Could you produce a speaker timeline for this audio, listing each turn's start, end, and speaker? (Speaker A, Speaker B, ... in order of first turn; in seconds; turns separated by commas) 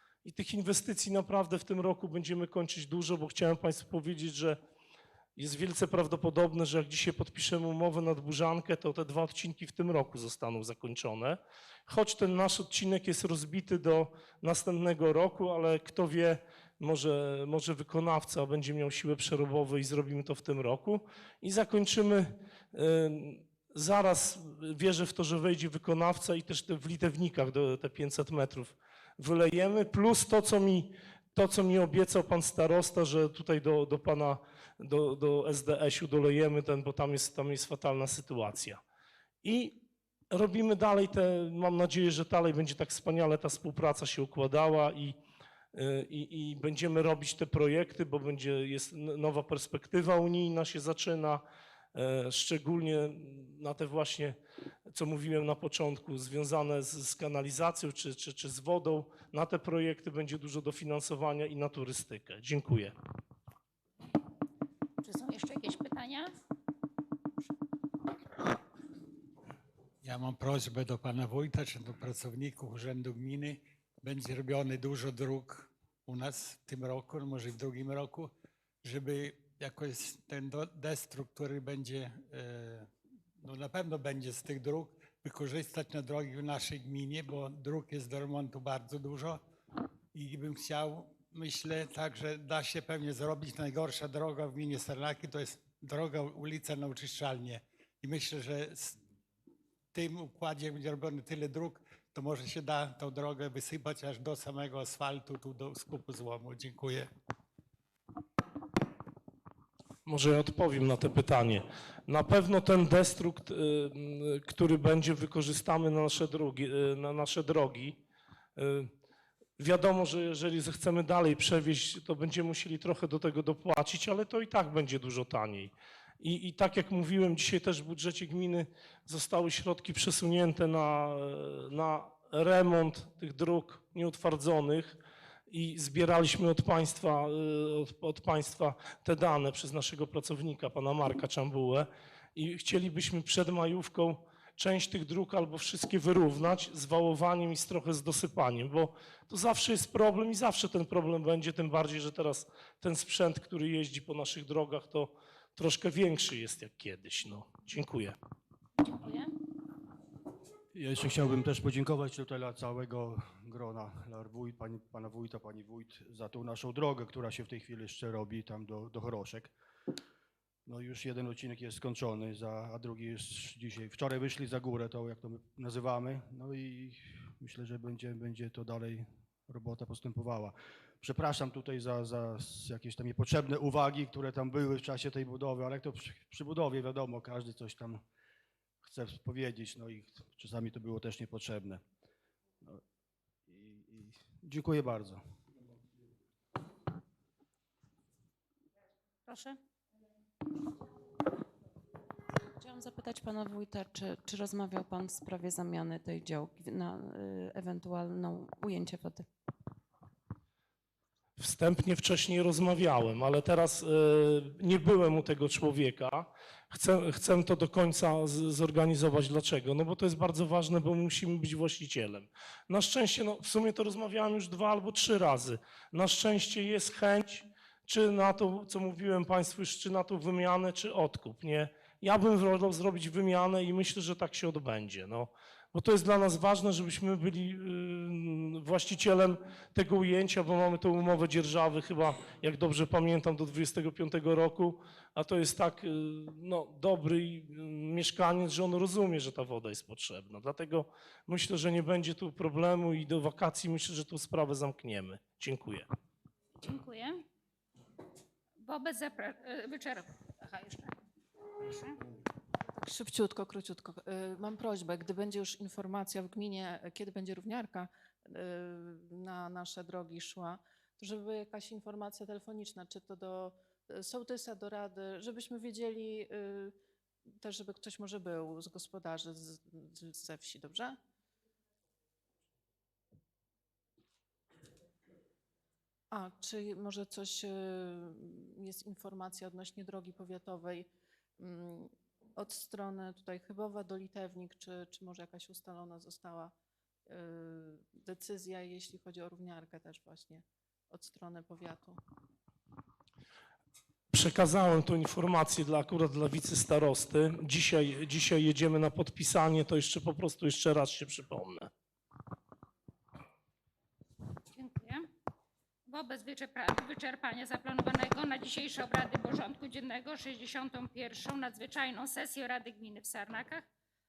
Speaker A: 0.2-4.6, Speaker A: 5.3-38.8, Speaker A: 39.4-39.8, Speaker A: 40.3-45.1, Speaker A: 45.7-51.4, Speaker A: 51.9-54.4, Speaker A: 54.9-62.9, Speaker B: 65.0-66.3, Speaker C: 70.0-78.3, Speaker C: 78.8-89.4, Speaker C: 90.1-99.0, Speaker C: 99.9-107.1, Speaker A: 110.0-118.0, Speaker A: 118.5-118.9, Speaker A: 119.6-158.2, Speaker B: 158.8-159.3, Speaker D: 160.7-169.5, Speaker D: 170.7-188.0, Speaker D: 188.8-191.8, Speaker D: 193.5-195.2, Speaker B: 199.2-199.6, Speaker E: 202.6-209.3, Speaker A: 211.4-255.9, Speaker B: 256.6-257.2, Speaker B: 258.6-261.0, Speaker B: 261.6-262.0, Speaker F: 262.8-281.0, Speaker F: 286.1-296.5, Speaker F: 297.1-302.0, Speaker A: 304.1-311.7, Speaker B: 314.5-315.1, Speaker B: 315.9-323.6